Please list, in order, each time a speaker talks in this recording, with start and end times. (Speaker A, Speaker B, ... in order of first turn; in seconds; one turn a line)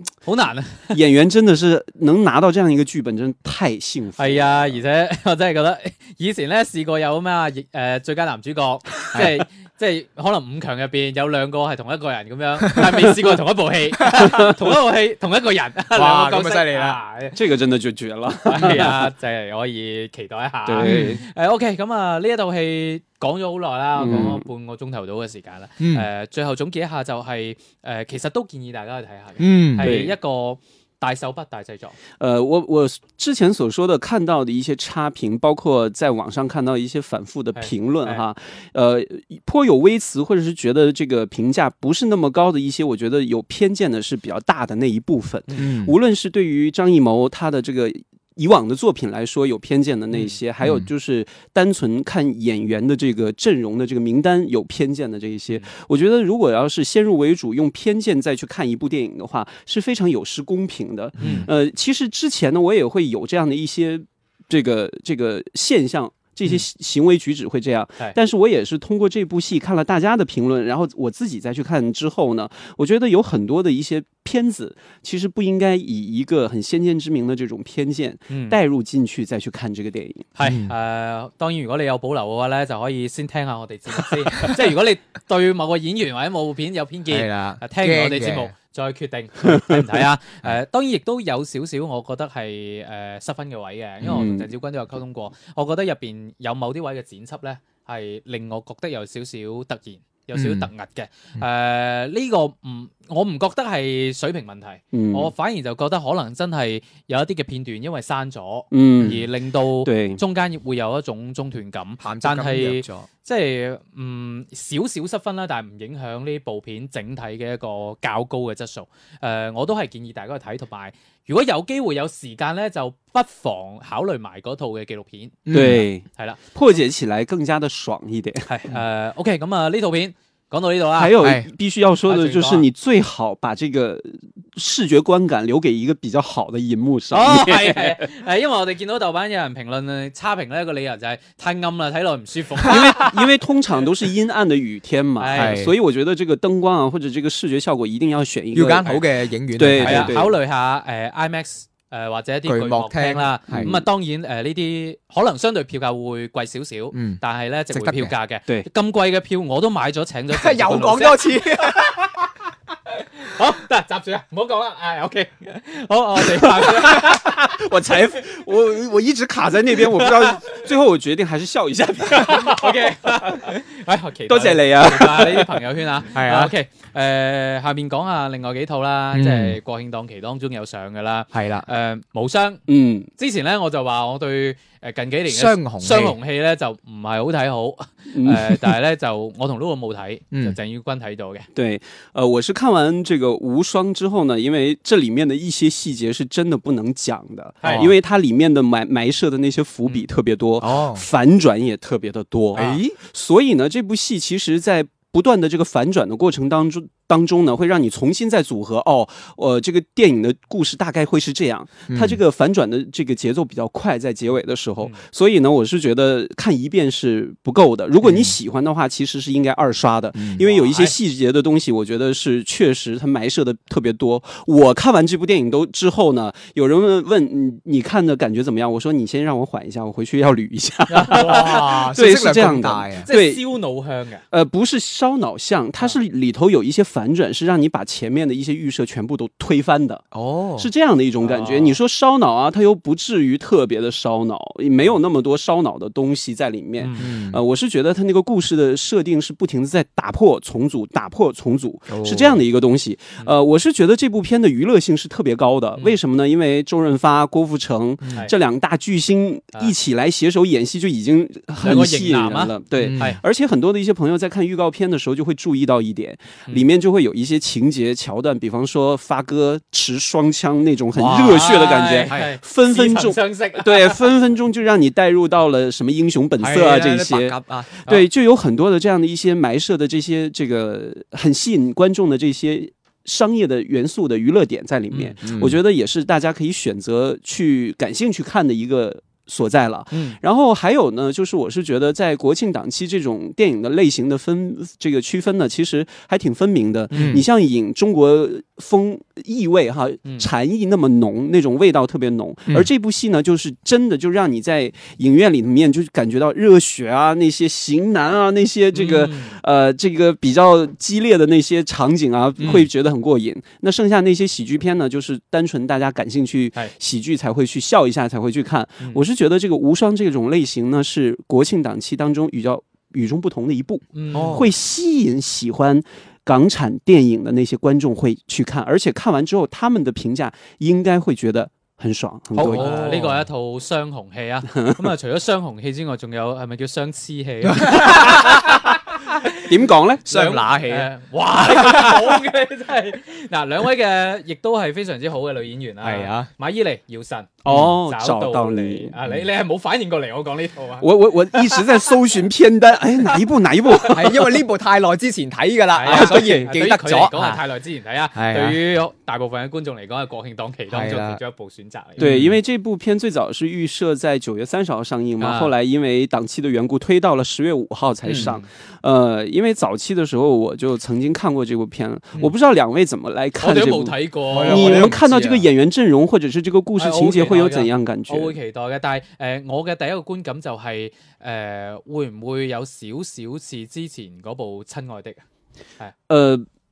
Speaker A: 0.2-1.0
Speaker B: 0.9-4.8
Speaker A: 4.2-17.4
Speaker C: 9.1-9.4
Speaker C: 14.1-14.5
Speaker C: 15.9-17.0
Speaker B: 17.3-19.1
Speaker A: 18.4-32.0
Speaker B: 20.6-21.2
Speaker C: 20.8-21.2
Speaker B: 24.0-24.4
Speaker C: 25.8-26.1
Speaker C: 29.4-30.0
Speaker B: 29.8-30.1
Speaker B: 32.2-80.3
Speaker A: 37.5-38.2
Speaker C: 45.6-46.0
Speaker A: 50.1-50.4
Speaker C: 50.6-50.9
Speaker A: 61.2-61.5
Speaker C: 61.2-61.5
Speaker A: 78.3-78.6
Speaker A: 80.3-125.6
Speaker C: 80.4-80.7
Speaker C: 87.1-88.5
Speaker B: 94.0-94.5
Speaker C: 100.3-100.7
Speaker B: 104.9-105.3
Speaker B: 108.7-109.2
Speaker B: 109.8-110.2
Speaker C: 112.0-113.1
Speaker C: 125.5-125.8
Speaker B: 125.5-128.5
Speaker A: 126.2-126.4
Speaker A: 128.4-131.2
Speaker B: 130.9-138.0
Speaker C: 131.2-131.5
Speaker A: 132.1-132.7
Speaker A: 137.1-143.2
Speaker B: 142.6-149.0
Speaker A: 145.2-145.6
Speaker C: 145.3-145.7
Speaker C: 148.5-150.2
Speaker B: 149.5-150.3
Speaker A: 149.7-162.3
Speaker C: 152.4-153.8
Speaker B: 153.5-153.8
Speaker C: 156.9-157.2
Speaker C: 157.7-158.1
Speaker C: 160.3-162.0
Speaker A: 163.0-167.4
Speaker B: 166.2-173.4
Speaker A: 169.9-170.3
Speaker A: 172.1-182.6
Speaker B: 174.3-175.6
Speaker C: 176.1-176.5
Speaker C: 179.1-179.6
Speaker C: 181.3-181.7
Speaker B: 182.7-183.1
Speaker A: 183.2-191.5
Speaker C: 185.3-186.2
Speaker B: 188.1-188.8
Speaker B: 191.5-233.5
Speaker A: 197.6-197.9
Speaker C: 197.6-197.9
Speaker C: 200.6-201.0
Speaker A: 202.5-202.8
Speaker C: 202.5-203.0
Speaker C: 211.9-212.2
Speaker C: 218.0-218.3
Speaker C: 220.1-220.4
Speaker A: 220.4-220.9
Speaker A: 230.9-232.0
Speaker C: 231.1-233.1
Speaker A: 233.1-234.2
Speaker B: 234.3-240.1
Speaker C: 240.1-240.7
Speaker B: 240.6-333.2
Speaker A: 241.2-241.8
Speaker A: 246.8-247.1
Speaker C: 247.0-247.4
Speaker C: 251.9-252.4
Speaker C: 258.0-258.3
Speaker A: 261.6-263.2
Speaker C: 262.8-263.2
Speaker A: 270.9-274.1
Speaker C: 276.4-277.8
Speaker A: 284.9-285.2
Speaker C: 285.2-285.6
Speaker A: 289.9-290.2
Speaker A: 296.9-297.2
Speaker C: 296.9-297.2
Speaker A: 308.7-309.4
Speaker C: 312.4-312.7
Speaker A: 323.9-324.5
Speaker C: 324.1-324.5
Speaker A: 332.3-339.4
Speaker C: 332.4-333.2
Speaker C: 337.4-338.6
Speaker B: 339.4-340.0
Speaker C: 340.1-342.2
Speaker A: 340.1-351.8
Speaker C: 345.8-346.3
Speaker B: 347.4-348.9
Speaker C: 347.5-347.8
Speaker B: 350.8-354.2
Speaker A: 353.6-354.2
Speaker C: 353.9-357.4
Speaker A: 355.7-362.1
Speaker B: 355.9-356.5
Speaker C: 358.1-358.6
Speaker C: 360.7-361.2
Speaker C: 362.0-362.4
Speaker B: 362.0-378.4
Speaker A: 365.2-365.5
Speaker C: 368.0-368.4
Speaker A: 368.1-368.4
Speaker A: 373.4-375.0
Speaker C: 374.3-375.5
Speaker A: 376.8-385.2
Speaker B: 386.1-386.4